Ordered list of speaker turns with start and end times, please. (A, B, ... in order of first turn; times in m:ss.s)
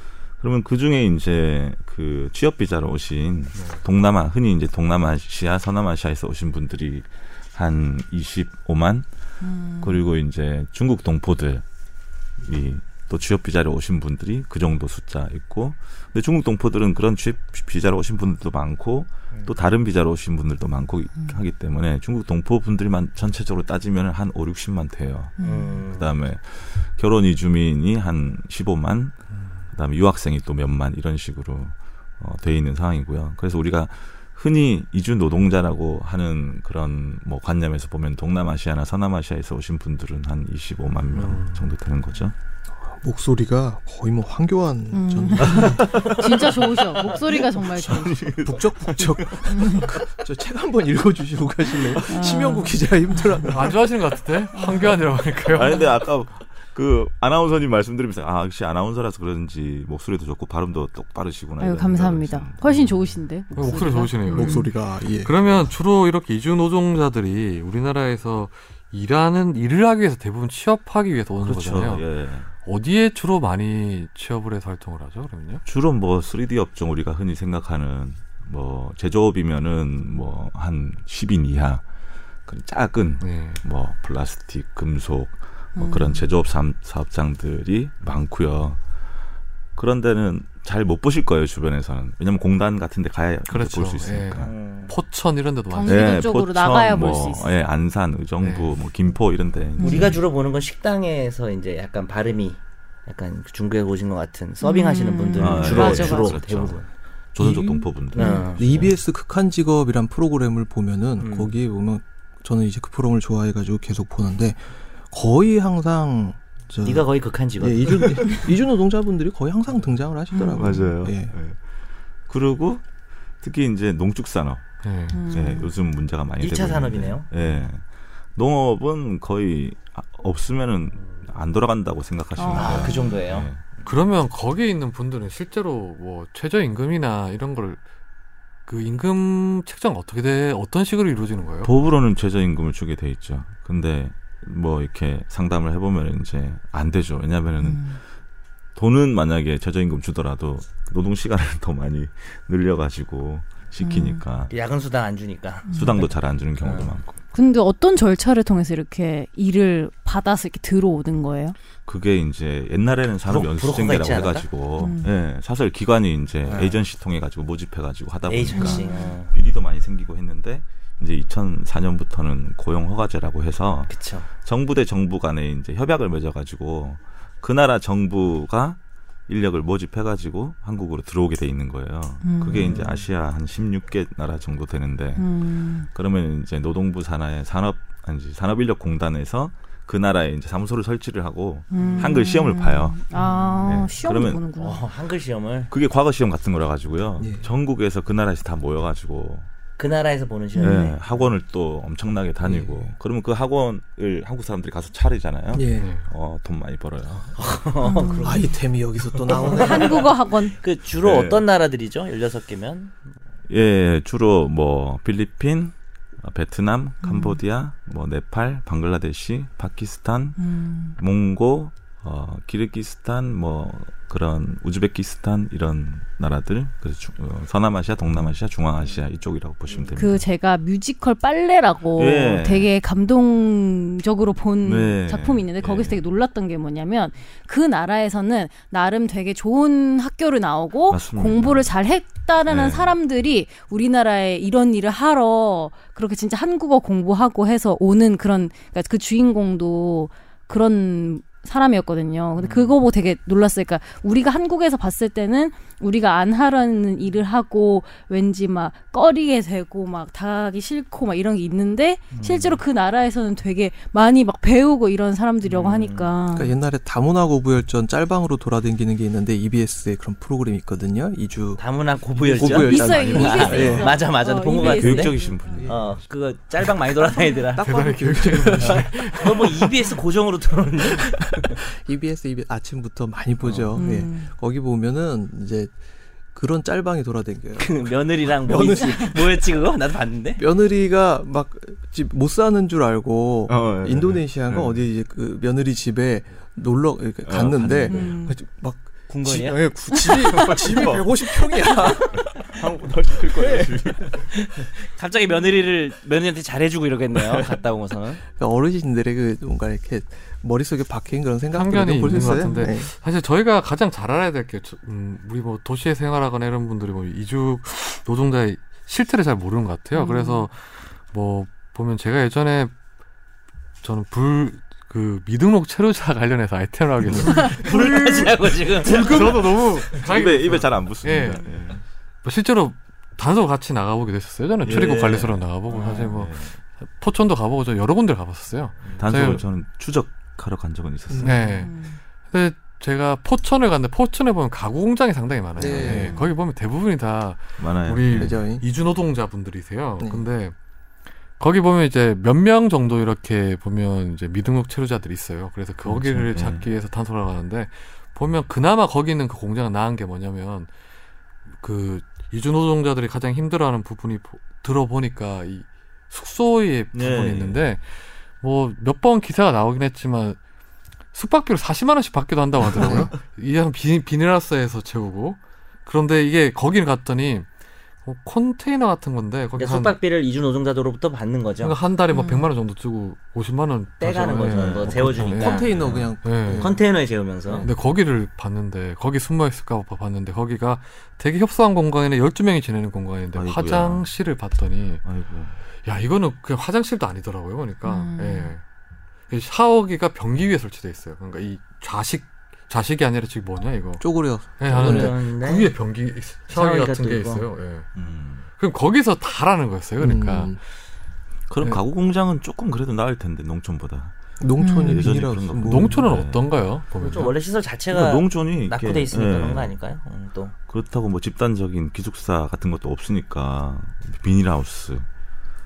0:00.4-0:09.1 A
0:03.6-0:03.8 B
0:09.4-0:10.0 C
0:09.8-0:11.6 A
0:12.4-0:29.2 A
0:25.4-0:25.8 C
0:25.4-0:26.2 D
0:29.7-0:42.4 A
0:41.1-0:41.7 B
0:42.9-0:46.1 E
0:44.9-0:48.2 C
0:45.5-0:50.1 A
0:48.4-0:53.9 E
0:49.5-0:49.9 C
0:52.1-0:53.2 C
0:53.5-0:55.9 B
0:54.5-0:55.0 C
0:55.5-1:02.6 A
1:01.6-1:04.7 C
1:02.6-1:02.9 B
1:03.5-1:12.0 B
1:04.3-1:05.4 E
1:11.4-1:12.5 A
1:12.6-1:15.6 B
1:15.7-1:21.8 A
1:22.5-1:28.8 A
1:23.2-1:23.6 B
1:25.8-1:26.3 C
1:29.8-1:34.5 A
1:33.5-1:36.3 B
1:34.4-1:34.9 D
1:35.7-1:37.5 C
1:35.8-1:40.2 A
1:38.4-1:38.8 B
1:39.8-1:40.2 C
1:39.8-1:46.9 D
1:44.6-1:46.4 C
1:45.4-1:48.9 A
1:47.4-2:01.4 E
1:48.1-1:48.9 D
1:48.2-1:48.4 C
1:51.2-1:51.5 D
1:56.8-1:58.0 D
2:00.3-2:00.9 C
2:00.5-2:01.6 A
2:02.3-2:02.8 A
2:03.4-2:04.7 A
2:04.8-2:05.3 B
2:05.1-2:05.7 C
2:05.2-2:13.6 A
2:06.4-2:07.3 D
2:12.4-2:13.2 C
2:12.5-2:13.5 D
2:13.8-2:17.8 B
2:18.7-2:21.7 B
2:21.6-2:28.0 A
2:27.6-2:28.0 C
2:28.8-2:34.5 A
2:33.8-2:34.2 C
2:34.5-2:37.0 D
2:35.7-2:36.0 C
2:35.7-2:37.2 A
2:37.3-2:41.6 C
2:41.8-3:13.1 A
2:43.3-2:44.5 D
2:44.8-2:45.1 C
2:46.5-2:46.8 E
2:48.3-2:49.3 D
2:48.5-2:49.0 C
2:53.9-2:54.3 D
3:02.2-3:02.8 C
3:02.5-3:03.0 D
3:05.2-3:05.9 C
3:11.7-3:14.8 C
3:11.8-3:12.2 D
3:13.2-3:13.7 D
3:13.6-3:14.4 A
3:14.6-3:15.7 D
3:15.7-3:19.5 A
3:17.2-3:17.5 E
3:19.8-3:21.3 D
3:20.6-3:21.0 C
3:20.6-3:27.4 A
3:25.5-3:25.9 E
3:25.7-3:26.0 B
3:27.3-3:28.6 D
3:27.8-3:28.6 C
3:28.2-3:30.1 E
3:29.2-3:33.0 D
3:29.5-3:30.6 C
3:31.0-3:31.4 A
3:33.5-3:40.4 A
3:37.0-3:37.4 C
3:40.4-3:41.0 C
3:41.0-3:50.3 A
3:49.7-3:50.0 D
3:50.0-4:26.5 C
3:52.0-3:52.7 A
3:54.6-3:56.0 A
4:00.9-4:01.7 A
4:02.5-4:03.0 A
4:12.4-4:12.7 D
4:22.1-4:22.6 D
4:25.4-4:26.1 D
4:26.3-4:31.6 E
4:31.6-4:37.7 D
4:32.2-4:34.0 E
4:32.4-4:33.8 A
4:32.5-4:35.4 C
4:34.4-4:36.0 A
4:35.5-4:35.8 E
4:37.3-4:39.1 E
4:37.6-4:40.0 B
4:38.6-4:41.6 D
4:41.0-4:45.7 E
4:43.8-4:44.3 C
4:46.3-4:49.6 E
4:47.6-4:50.4 D
4:50.4-5:02.4 E
4:53.5-4:54.8 A
4:57.2-4:58.2 A
4:57.9-4:58.4 C
4:59.1-4:59.6 D
5:00.3-5:01.1 A
5:02.1-5:04.3 A
5:04.2-5:08.2 D
5:07.2-5:07.5 A
5:08.4-5:12.9 E
5:11.5-5:22.7 B
5:19.9-5:20.5 C
5:23.8-5:31.4 B
5:27.2-5:27.5 A
5:27.4-5:29.6 D
5:28.9-5:29.3 A
5:30.0-5:31.8 A
5:32.2-5:39.4 B
5:34.6-5:36.6 A
5:39.0-5:41.4 A
5:41.1-5:41.4 E
5:41.2-5:41.7 B
5:41.5-5:42.0 C
5:42.3-5:50.5 B
5:45.6-5:46.2 E
5:45.9-5:46.3 C
5:47.6-5:48.4 A
5:48.1-5:48.6 E
5:50.0-5:50.3 E
5:51.4-6:00.7 B
5:55.8-5:56.7 A
6:01.6-6:10.4 B
6:06.9-6:07.7 A
6:11.1-6:17.5 B
6:12.8-6:13.1 E
6:18.0-6:20.0 B
6:19.6-6:21.8 D
6:21.6-6:26.8 B
6:22.1-6:22.5 C
6:24.0-6:25.7 D
6:24.5-6:26.2 A
6:25.2-6:26.8 E
6:26.6-6:27.7 D
6:27.6-6:35.0 B
6:33.3-6:34.1 A
6:35.0-6:35.6 A
6:35.8-6:38.6 B
6:37.8-6:38.5 C
6:39.3-6:47.9 B
6:44.0-6:45.2 E
6:44.7-6:45.7 D
6:46.5-6:47.4 D
6:48.0-6:48.4 A
6:48.6-6:50.6 B
6:50.0-6:50.6 E
6:51.5-6:54.1 A
6:54.4-6:56.0 E
6:54.6-6:55.0 C
6:54.8-6:56.5 A
6:55.6-6:57.3 B
6:57.0-7:00.6 D
6:57.9-6:59.7 A
7:00.7-7:05.1 A